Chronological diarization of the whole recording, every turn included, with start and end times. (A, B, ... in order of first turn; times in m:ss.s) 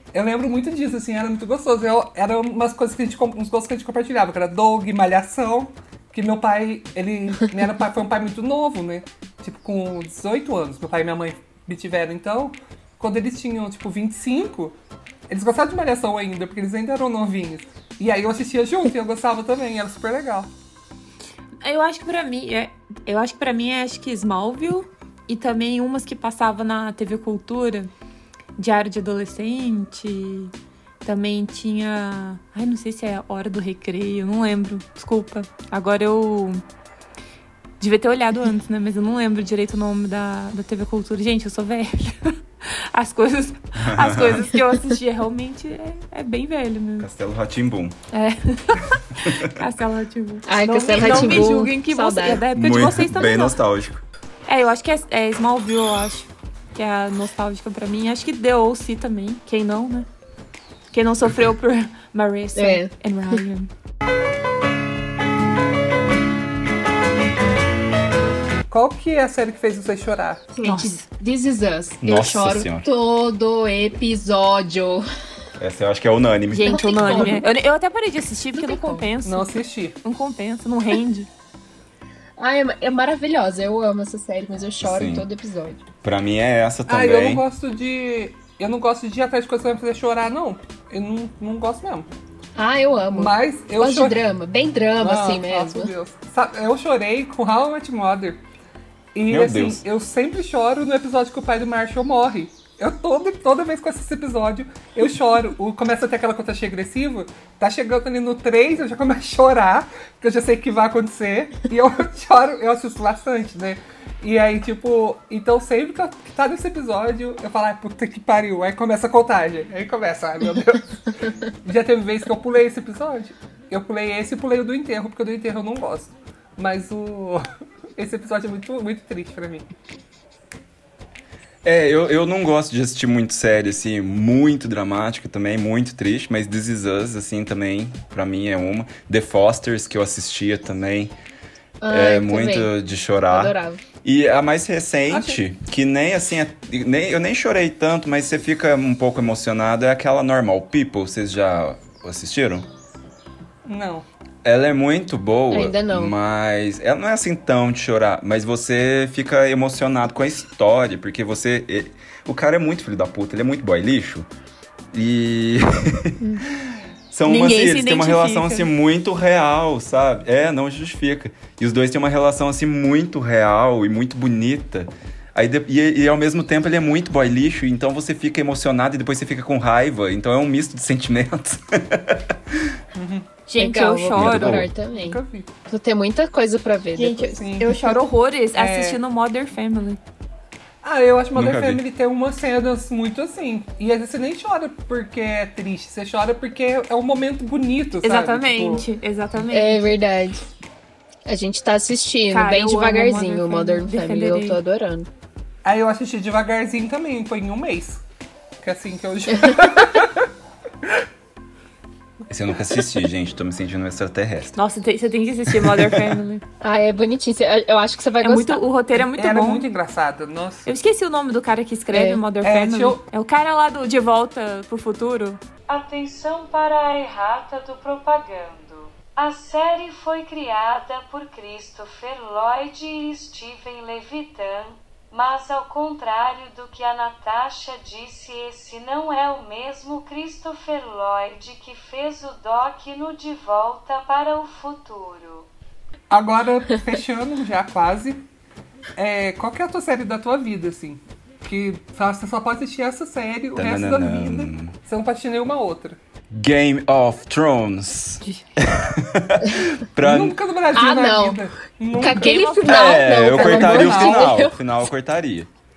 0:00.1-0:14.8 A
0:15.3-0:20.5 A
0:21.6-0:27.9 B
0:28.6-0:36.6 B
0:37.8-0:47.1 B
0:43.8-0:44.5 C
0:47.0-0:48.0 C
0:48.1-0:53.6 B
0:49.2-0:49.5 C
0:50.5-0:52.4 D
0:51.0-0:51.6 C
0:52.5-0:54.0 C
0:54.5-1:00.1 B
1:00.9-1:03.7 B
1:02.6-1:02.9 D
1:08.7-1:10.5 A
1:10.5-1:15.0 D
1:10.6-1:11.0 B
1:12.0-1:12.9 C
1:15.6-1:17.3 C
1:16.5-1:21.3 B
1:16.7-1:17.4 D
1:18.6-1:19.1 D
1:19.2-1:20.0 A
1:22.4-1:25.8 D
1:24.8-1:25.3 C
1:26.0-1:27.4 C
1:26.9-1:32.1 A
1:32.6-1:35.9 D
1:33.1-1:34.2 A
1:35.0-1:38.4 A
1:39.1-2:00.9 A
1:39.3-1:39.8 C
2:01.6-2:07.4 A
2:08.0-2:09.6 A
2:11.6-2:21.1 C
2:21.8-2:22.7 D
2:21.9-2:32.7 C
2:23.3-2:23.8 D
2:25.1-2:25.4 A
2:33.6-2:34.1 A
2:34.4-2:44.3 C
2:35.5-2:36.1 D
2:44.9-2:46.4 C
2:47.1-3:02.8 C
2:47.2-2:48.7 B
3:02.9-3:03.3 A
3:03.4-3:04.6 B
3:03.6-3:07.4 D
3:04.1-3:04.7 C
3:04.9-3:05.5 A
3:06.9-3:10.0 B
3:07.4-3:08.0 A
3:08.5-3:09.0 A
3:10.8-3:18.8 A
3:11.4-3:11.8 C
3:18.0-3:19.8 B
3:19.5-3:20.4 D
3:21.3-3:25.1 D
3:22.3-3:24.6 B
3:25.6-3:28.0 A
3:28.6-3:30.3 A
3:32.3-3:34.6 C
3:34.6-3:36.4 B
3:35.5-3:36.1 C
3:36.6-3:38.6 D
3:38.2-3:39.7 B
3:39.0-3:40.7 A
3:40.6-3:45.4 B
3:41.9-3:42.2 D
3:42.4-3:43.0 A
3:45.7-4:05.5 E
4:06.1-4:08.2 A
4:09.0-4:16.0 A
4:13.6-4:14.7 C
4:16.3-4:20.4 C
4:20.0-4:24.4 A
4:20.7-4:21.4 D
4:22.0-4:24.5 D
4:22.0-4:23.0 B
4:22.6-4:25.5 C